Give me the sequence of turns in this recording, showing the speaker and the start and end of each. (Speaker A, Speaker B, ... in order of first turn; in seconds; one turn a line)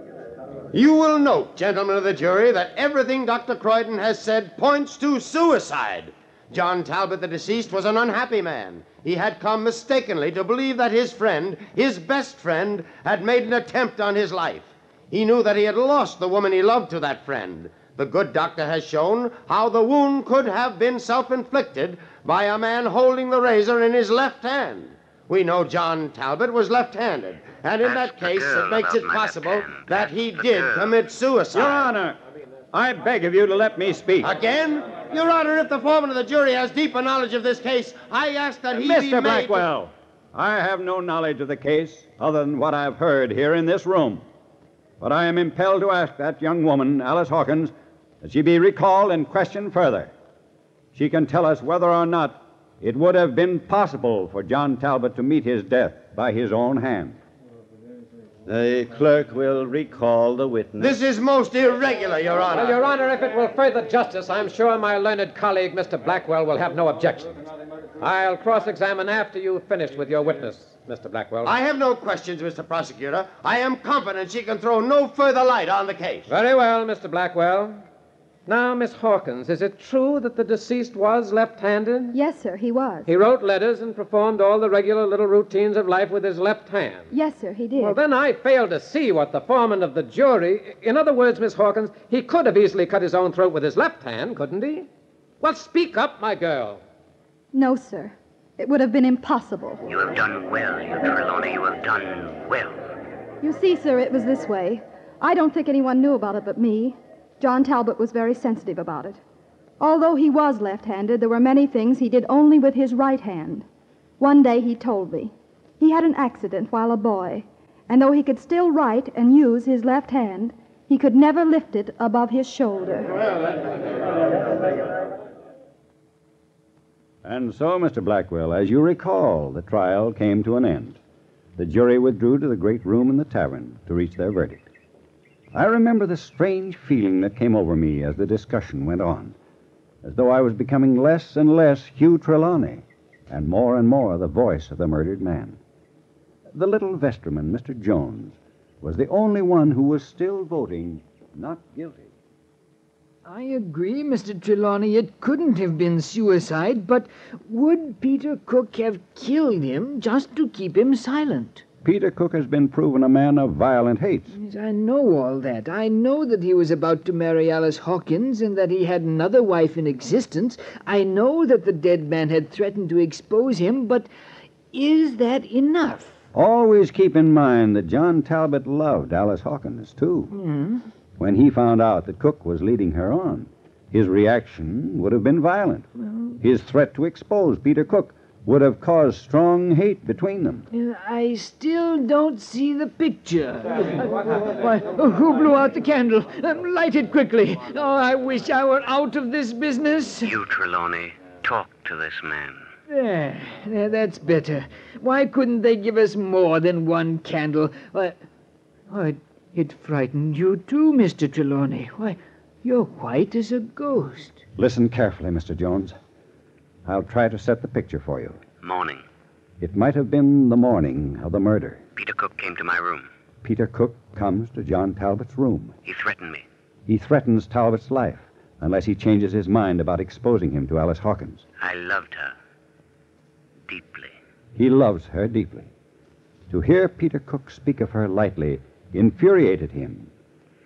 Speaker A: 0.7-31.9
Speaker B: 27.8-31.0
Speaker C: 31.5-32.2
Speaker C: 32.7-34.3
Speaker A: 34.2-39.6
Speaker C: 38.8-44.2
Speaker C: 45.0-50.1
Speaker C: 50.9-57.2
Speaker D: 58.5-61.0
Speaker A: 60.8-62.8
Speaker E: 62.5-67.4
Speaker E: 68.0-71.5
Speaker A: 71.4-76.3
Speaker E: 76.3-77.8
Speaker E: 78.5-82.2
Speaker F: 82.1-83.1
Speaker E: 83.0-87.1
Speaker F: 87.1-88.0
Speaker E: 87.8-94.9
Speaker E: 95.4-96.8
Speaker F: 97.5-99.8
Speaker B: 99.8-102.9
Speaker F: 103.4-109.2
Speaker F: 109.8-113.6
Speaker F: 114.2-123.2
Speaker C: 127.2-131.0
Speaker C: 131.6-134.7
Speaker C: 135.5-139.3
Speaker C: 140.0-145.6
Speaker C: 146.5-152.1
Speaker G: 153.2-161.6
Speaker C: 161.8-164.3
Speaker G: 164.3-174.1
Speaker G: 174.7-176.2
Speaker C: 176.3-180.3
Speaker G: 180.3-180.8
Speaker C: 181.2-185.8
Speaker C: 186.4-190.7
Speaker G: 190.7-200.3
Speaker B: 200.2-202.7
Speaker G: 202.9-208.2
Speaker G: 208.9-214.4
Speaker C: 214.6-216.0
Speaker C: 216.8-218.4
Speaker B: 218.6-219.0
Speaker C: 219.6-221.8
Speaker B: 221.9-223.1
Speaker C: 223.4-225.8
Speaker B: 225.8-226.4
Speaker C: 226.9-231.4
Speaker B: 231.6-232.3
Speaker B: 233.7-234.2
Speaker C: 234.6-235.7
Speaker C: 236.5-240.1